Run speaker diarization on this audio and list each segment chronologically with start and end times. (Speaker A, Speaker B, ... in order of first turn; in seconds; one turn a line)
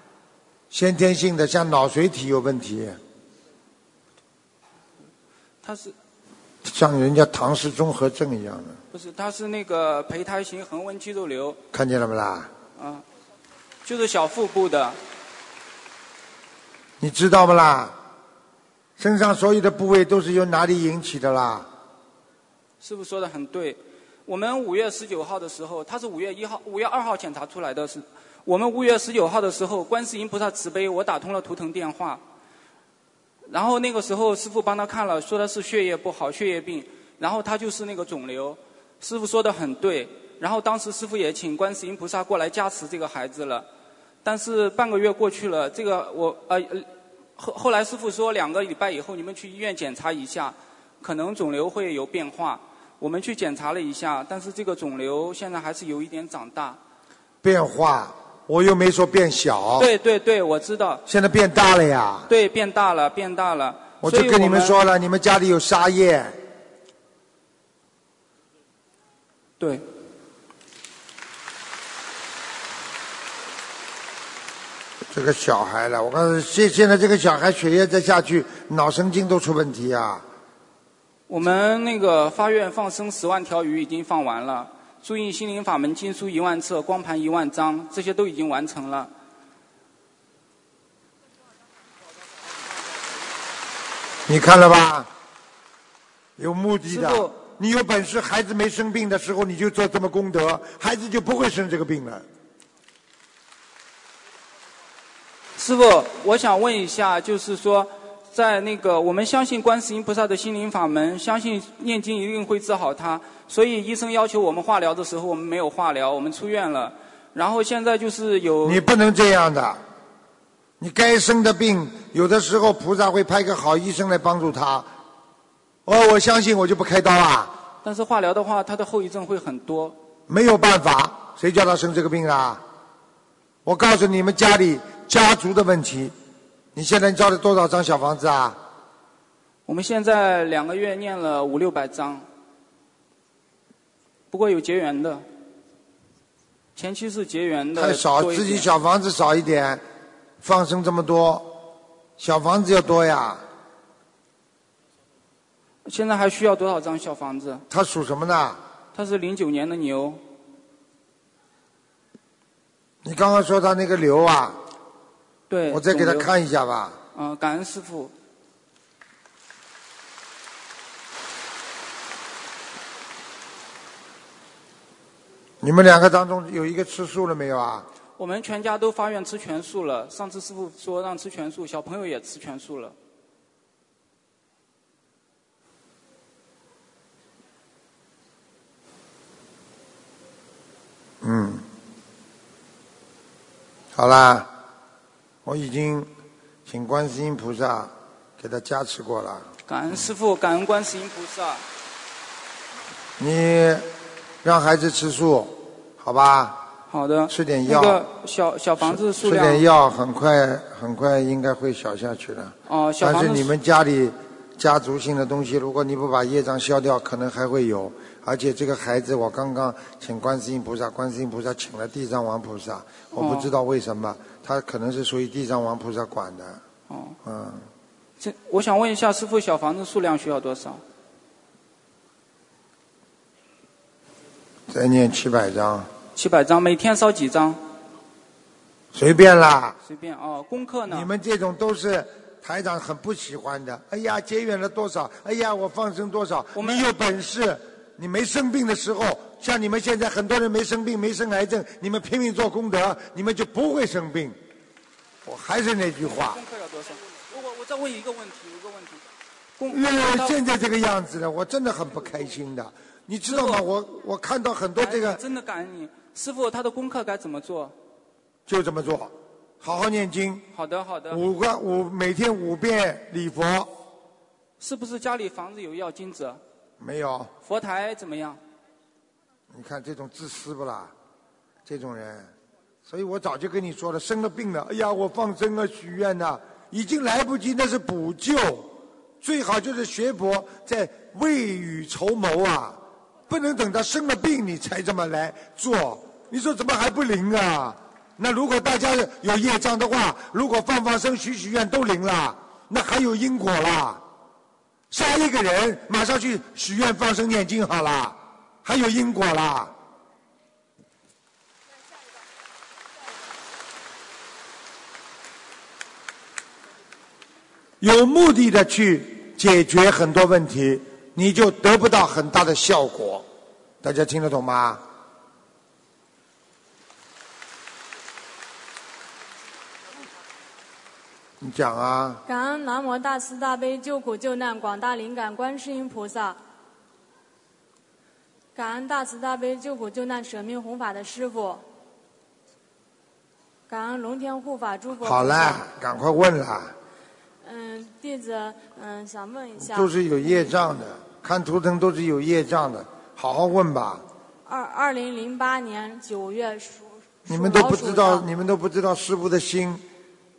Speaker A: 0.7-3.0
Speaker B: 5.6-5.9
Speaker A: 6.6-8.8
Speaker B: 8.9-11.6
Speaker A: 11.7-12.5
Speaker B: 12.8-13.0
Speaker B: 13.8-15.0
Speaker A: 17.0-17.9
Speaker A: 19.0-21.7
Speaker B: 22.8-32.2
Speaker B: 33.5-43.7
Speaker B: 44.2-56.8
Speaker A: 57.4-59.9
Speaker B: 59.8-61.0
Speaker A: 61.0-62.3
Speaker B: 62.3-64.8
Speaker A: 64.0-66.4
Speaker B: 69.6-69.8
Speaker A: 75.1-80.2
Speaker B: 81.3-89.1
Speaker A: 94.3-95.1
Speaker A: 96.4-102.2
Speaker B: 96.8-97.3
Speaker B: 105.6-118.8
Speaker A: 118.6-119.8
Speaker A: 120.8-124.9
Speaker A: 125.8-127.5
Speaker B: 127.8-129.9
Speaker A: 130.3-132.6
Speaker A: 133.6-136.1
Speaker A: 136.7-138.6
Speaker B: 139.7-142.2
Speaker B: 144.3-145.2
Speaker B: 146.8-148.7
Speaker A: 147.8-149.8
Speaker A: 150.4-151.6
Speaker A: 152.2-153.4
Speaker B: 155.8-157.6
Speaker A: 157.7-158.6
Speaker B: 158.9-160.2
Speaker A: 163.0-164.6
Speaker B: 165.5-166.3
Speaker A: 165.7-167.0
Speaker B: 167.1-168.1
Speaker A: 175.6-177.9
Speaker B: 178.2-182.9
Speaker A: 191.2-191.6
Speaker A: 193.9-194.5
Speaker A: 195.4-196.1
Speaker A: 196.7-199.5
Speaker B: 199.7-201.6
Speaker A: 203.2-203.9
Speaker A: 204.4-206.6
Speaker B: 206.9-209.6
Speaker A: 207.3-208.0
Speaker A: 208.8-226.6
Speaker B: 212.7-213.5
Speaker B: 223.1-223.5
Speaker B: 226.9-227.2
Speaker A: 227.2-227.7
Speaker B: 228.2-230.8
Speaker A: 234.7-235.9
Speaker B: 236.1-237.6
Speaker A: 238.9-239.8
Speaker B: 239.8-241.1
Speaker A: 240.9-254.4
Speaker B: 246.5-246.8
Speaker A: 255.2-256.4
Speaker B: 256.1-259.1
Speaker B: 259.6-260.4
Speaker A: 259.7-265.2
Speaker B: 263.2-263.6
Speaker B: 264.8-267.7
Speaker A: 268.5-270.5
Speaker B: 270.5-271.2
Speaker A: 271.1-273.7
Speaker B: 274.6-276.4
Speaker A: 276.8-277.3
Speaker B: 277.4-278.4
Speaker A: 279.5-280.9
Speaker A: 281.6-282.3
Speaker A: 282.8-304.0
Speaker A: 304.9-309.7
Speaker A: 317.8-323.2
Speaker A: 323.8-324.8
Speaker A: 331.4-332.2
Speaker C: 332.2-336.4
Speaker C: 338.5-341.6
Speaker C: 343.7-345.6
Speaker A: 345.0-346.7
Speaker C: 347.4-350.5
Speaker A: 349.6-354.0
Speaker C: 354.4-358.2
Speaker A: 357.3-359.8